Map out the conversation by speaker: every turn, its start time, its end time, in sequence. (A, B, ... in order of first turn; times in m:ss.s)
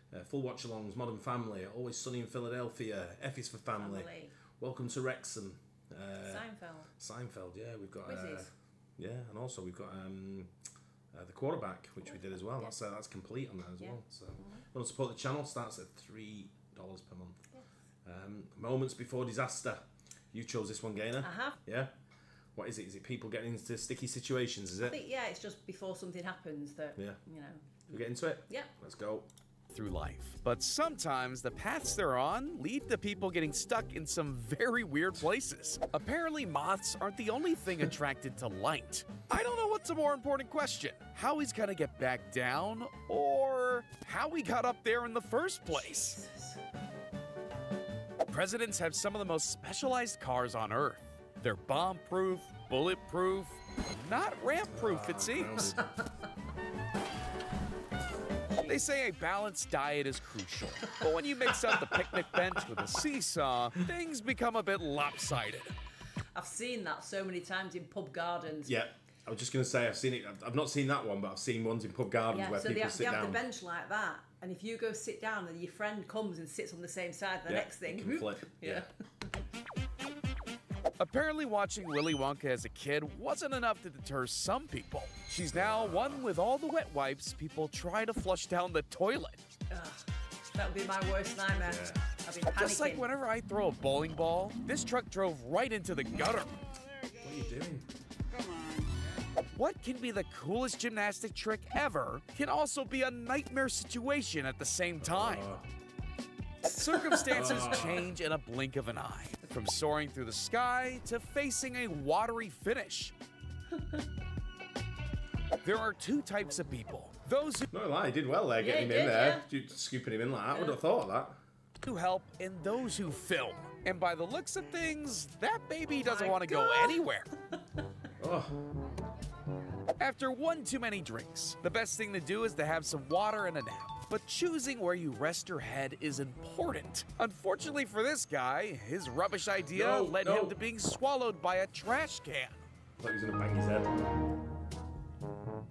0:00.1-0:10.5 A
0:03.8-0:04.3 B
0:06.2-0:06.9 B
0:08.0-0:08.5 B
0:11.1-0:17.4 A
0:13.8-0:14.6 B
0:18.0-0:21.9 A
0:21.2-0:21.6 B
0:22.6-0:25.0 A
0:24.8-0:27.7 B
0:27.9-0:29.3 A
0:29.7-0:46.2 C
0:45.7-0:46.6 B
0:48.3-0:55.8 C
0:54.7-0:55.8 A
0:58.5-0:58.9 B
0:58.7-1:05.8 C
1:06.4-1:08.7 B
1:08.6-1:13.4 A
1:12.3-1:18.9 B
1:17.5-1:18.9 A
1:21.0-1:29.4 C
1:25.5-1:26.2 A
1:29.7-1:33.1 B
1:31.6-1:32.1 A
1:32.6-1:36.5 C
1:37.2-1:37.9 A
1:39.6-1:45.5 C
1:45.0-1:45.6 A
1:46.6-1:53.2 C
1:46.9-1:47.6 B
1:47.3-1:48.1 A
1:53.7-1:54.0 B
1:55.6-1:57.7 C
1:57.7-2:01.4 A
1:58.6-1:59.5 B
2:01.8-2:07.3 C
2:06.0-2:07.0 B
2:08.2-2:08.6 A
2:10.0-2:22.6 C
2:19.7-2:20.6 A
2:23.0-2:23.9 A